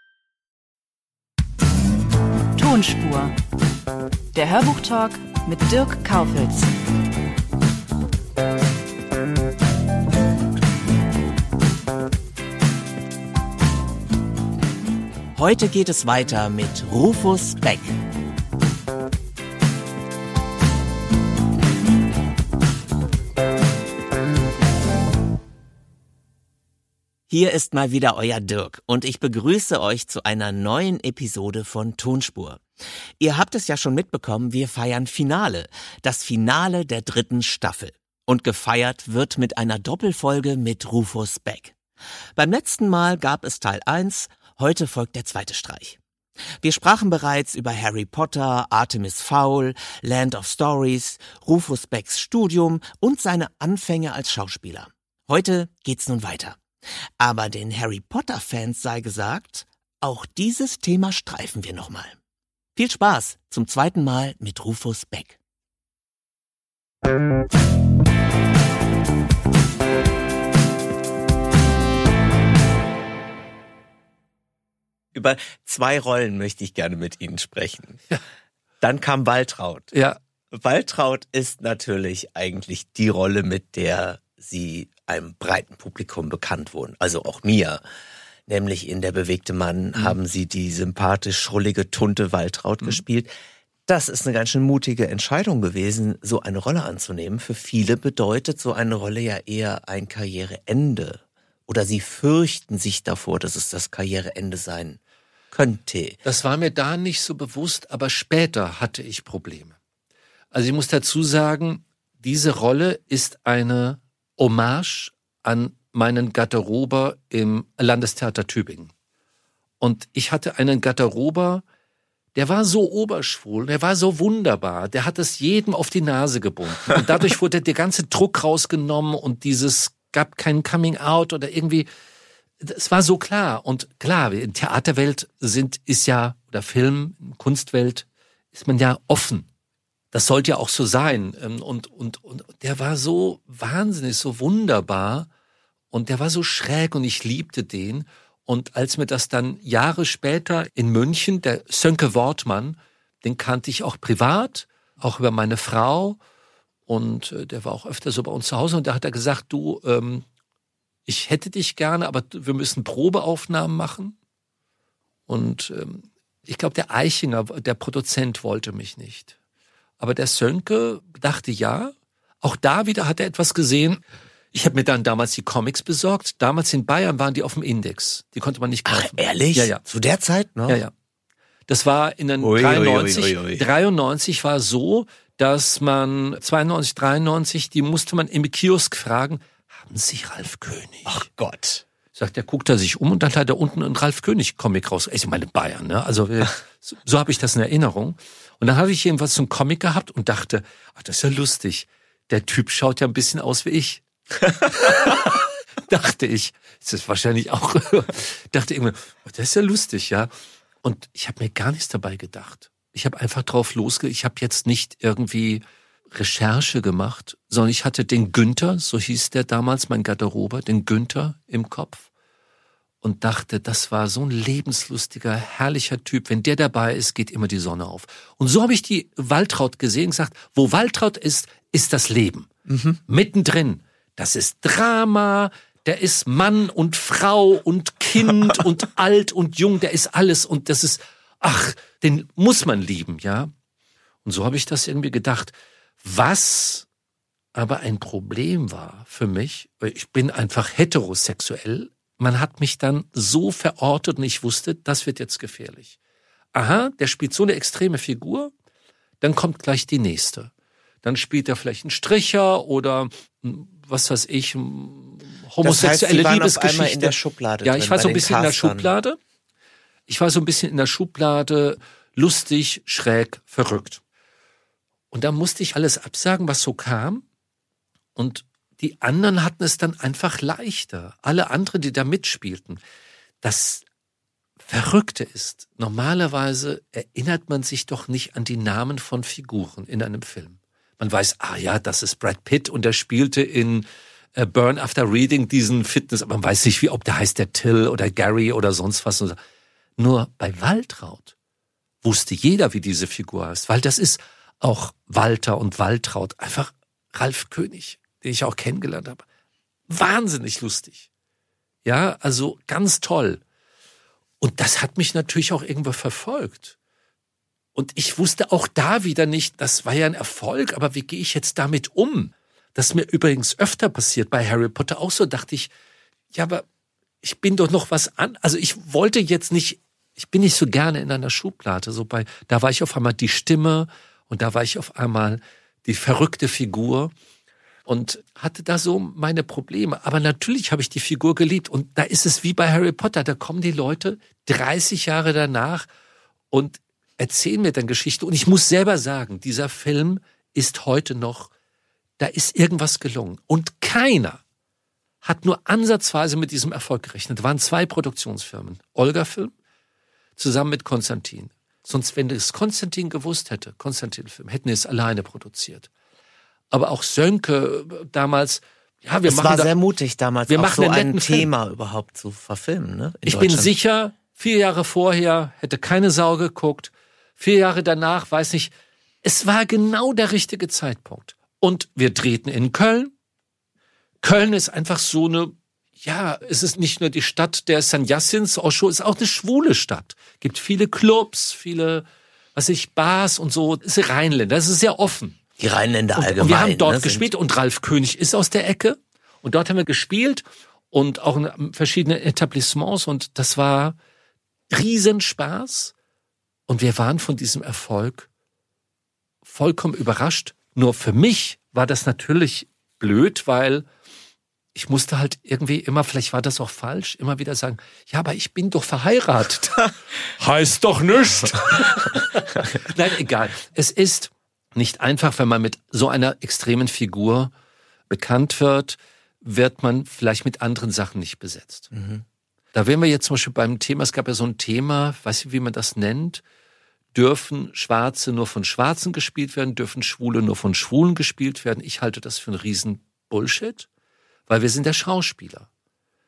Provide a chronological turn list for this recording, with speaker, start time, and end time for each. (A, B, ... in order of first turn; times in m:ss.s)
0:02.6-0:03.3 A
0:04.3-0:06.7 A
0:15.4-0:18.0 B
0:27.3-0:32.6 B
0:33.2-0:41.8 B
0:42.4-0:46.0 B
0:46.6-0:56.6 B
0:57.2-1:02.2 B
1:02.8-1:05.4 B
1:15.1-1:18.0 B
1:18.8-1:19.9 B
1:19.9-1:20.2 C
1:20.5-1:27.8 B
1:28.5-1:33.3 B
1:33.9-1:45.0 B
1:45.5-1:46.2 B
1:46.2-1:49.8 C
1:50.5-1:58.9 C
1:59.8-2:01.6 C
2:02.4-2:11.9 C
2:12.6-2:19.5 C
2:20.1-2:25.3 C
2:25.9-2:36.2 C
2:36.9-2:40.2 C
2:41.1-2:44.2 C
2:45.3-2:49.3 C
2:50.0-2:54.0 C
2:54.5-2:59.8 C
2:58.8-3:00.8 B
3:01.7-3:11.3 C
3:02.4-3:03.7 B
3:11.1-3:11.8 B
3:12.2-3:30.3 C
3:30.8-3:35.6 C
3:36.1-3:42.1 C
3:43.0-3:52.5 C
3:52.7-3:53.0 B
3:53.1-4:03.5 C
4:04.2-4:06.9 C
4:07.6-4:16.0 C
4:16.5-4:18.5 C
4:19.2-4:20.5 C
4:21.0-4:29.2 C
4:25.6-4:28.9 B
4:30.1-4:34.0 C
4:35.1-4:37.2 C
4:38.2-4:42.8 C
4:43.4-4:43.8 C
4:44.6-4:59.4 C
5:00.0-5:01.3 C
5:02.0-5:09.2 C
5:09.9-5:11.1 C
5:11.8-5:13.4 C
5:14.4-5:16.8 C
5:17.8-5:25.7 C
5:26.3-5:26.6 C
5:27.2-5:37.1 C
5:37.9-5:45.9 C
5:46.5-5:51.5 C
5:52.2-5:54.4 C
5:55.2-5:59.5 C
6:00.4-6:05.9 C
6:06.7-6:09.7 C
6:09.3-6:13.7 B
6:10.5-6:11.5 C
6:13.2-6:18.7 C
6:19.2-6:23.1 C
6:24.2-6:35.4 C
6:35.6-6:37.3 B
6:36.2-6:44.0 C
6:44.7-6:45.9 C
6:46.7-6:48.3 C
6:49.4-6:53.9 C
6:54.8-7:07.5 C
7:08.1-7:11.9 C
7:11.9-7:12.2 B
7:12.7-7:16.4 C
7:17.1-7:23.9 C
7:24.5-7:25.7 C